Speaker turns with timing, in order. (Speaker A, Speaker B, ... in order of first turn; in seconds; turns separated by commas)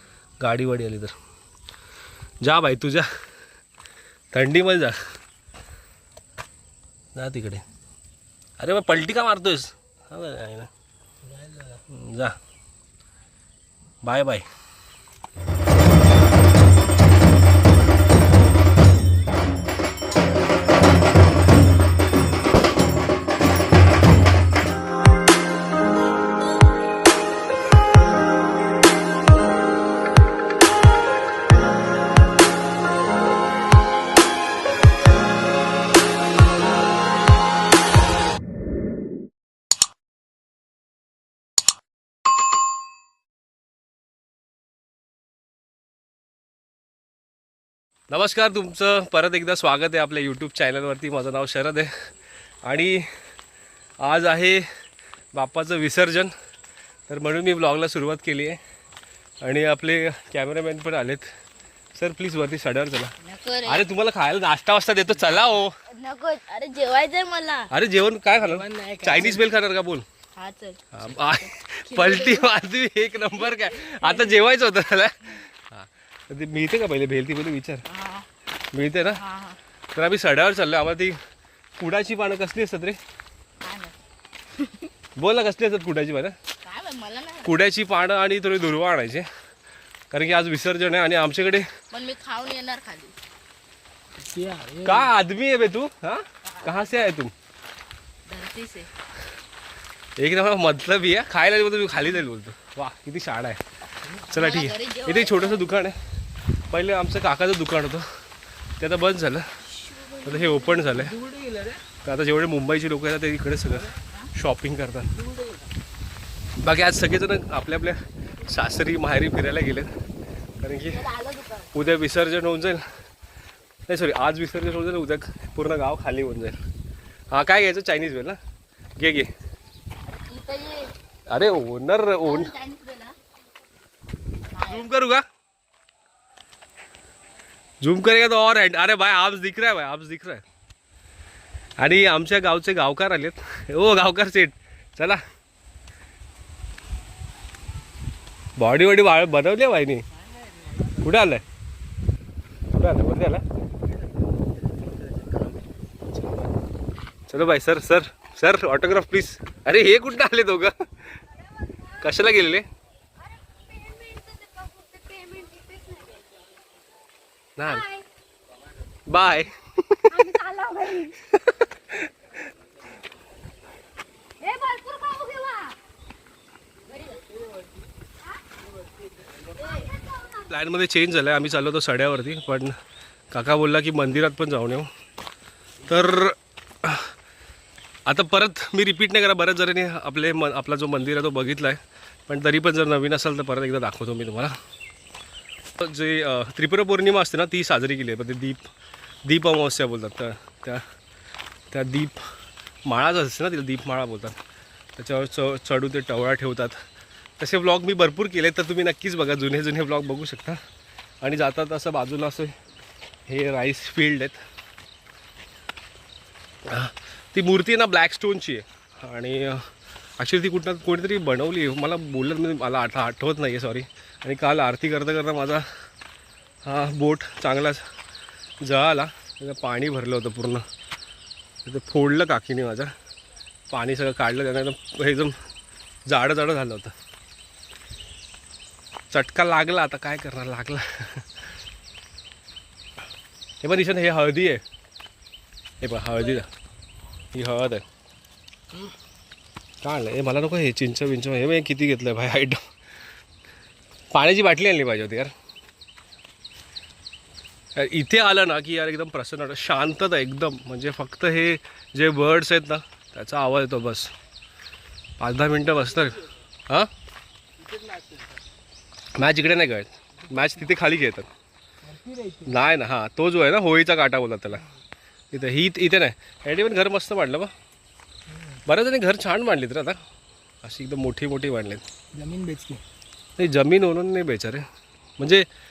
Speaker A: 0.4-1.1, Speaker A: 2.4-3.1, Speaker A: 4.3-5.0, Speaker A: 7.2-7.6, Speaker A: 8.6-10.7, Speaker A: 11.9-12.4, Speaker A: 14.0-14.5, Speaker A: 48.1-51.9, Speaker A: 52.6-53.1, Speaker A: 54.0-54.7, Speaker A: 55.3-56.3, Speaker A: 57.1-58.6, Speaker A: 59.4-61.3, Speaker A: 62.0-63.1, Speaker B: 63.2-63.9, Speaker A: 63.6-65.8, Speaker B: 65.8-67.7, Speaker A: 67.7-70.1, Speaker C: 68.4-69.4, Speaker B: 70.4-72.5, Speaker A: 70.9-77.8, Speaker B: 73.5-74.4, Speaker B: 77.9-78.3, Speaker A: 78.7-79.2, Speaker B: 79.1-79.6, Speaker A: 79.9-81.2, Speaker A: 81.8-83.0, Speaker B: 83.6-84.0, Speaker B: 84.6-84.9, Speaker A: 85.2-86.4, Speaker B: 86.6-87.5, Speaker A: 87.4-89.3, Speaker A: 90.1-91.7, Speaker B: 91.9-93.2, Speaker C: 94.2-95.1, Speaker A: 94.8-97.3, Speaker B: 98.3-98.9, Speaker A: 100.2-106.0, Speaker B: 104.3-105.6, Speaker A: 106.7-108.1, Speaker A: 108.8-109.5, Speaker B: 109.8-110.6, Speaker A: 110.2-111.2, Speaker C: 111.0-111.8, Speaker A: 112.0-115.2, Speaker C: 115.2-115.6, Speaker A: 116.6-119.9, Speaker A: 120.6-121.1, Speaker B: 120.9-121.7, Speaker A: 121.7-122.8, Speaker A: 123.9-126.6, Speaker A: 127.3-128.4, Speaker A: 129.0-129.3, Speaker B: 130.3-130.9, Speaker A: 131.3-132.5, Speaker B: 132.2-133.2, Speaker B: 134.6-134.8, Speaker A: 134.6-135.2, Speaker A: 137.8-140.4, Speaker A: 141.8-145.2, Speaker A: 148.6-150.0, Speaker A: 150.9-151.4, Speaker A: 152.7-153.4, Speaker A: 157.3-160.7, Speaker A: 162.0-162.7, Speaker B: 163.6-166.2, Speaker A: 167.6-167.9, Speaker B: 167.7-168.1, Speaker A: 169.1-170.4, Speaker B: 170.1-171.2, Speaker A: 171.2-172.0, Speaker B: 174.4-175.8, Speaker B: 179.8-180.0, Speaker A: 180.3-182.8, Speaker A: 183.3-184.9, Speaker A: 185.8-187.1, Speaker A: 188.1-194.6, Speaker A: 195.8-198.7, Speaker A: 199.2-200.8, Speaker A: 201.7-202.3, Speaker A: 202.9-204.4, Speaker A: 205.0-206.8, Speaker A: 207.4-210.6, Speaker A: 211.2-212.5, Speaker A: 213.3-214.4, Speaker A: 216.7-225.7, Speaker A: 226.7-227.8, Speaker A: 228.6-230.6, Speaker A: 231.6-232.9, Speaker A: 233.7-235.4, Speaker A: 236.1-236.9, Speaker A: 239.1-241.4, Speaker A: 243.6-244.6, Speaker A: 245.8-246.5, Speaker A: 247.3-247.8, Speaker A: 249.8-252.6, Speaker A: 254.1-255.3, Speaker A: 257.8-264.1, Speaker A: 265.2-266.9, Speaker C: 267.6-268.4, Speaker A: 269.2-271.3, Speaker C: 271.9-272.5, Speaker A: 272.4-274.7, Speaker A: 275.3-277.5, Speaker A: 278.6-280.0, Speaker A: 280.6-281.9, Speaker C: 282.1-282.8, Speaker A: 283.4-284.7, Speaker A: 285.2-285.5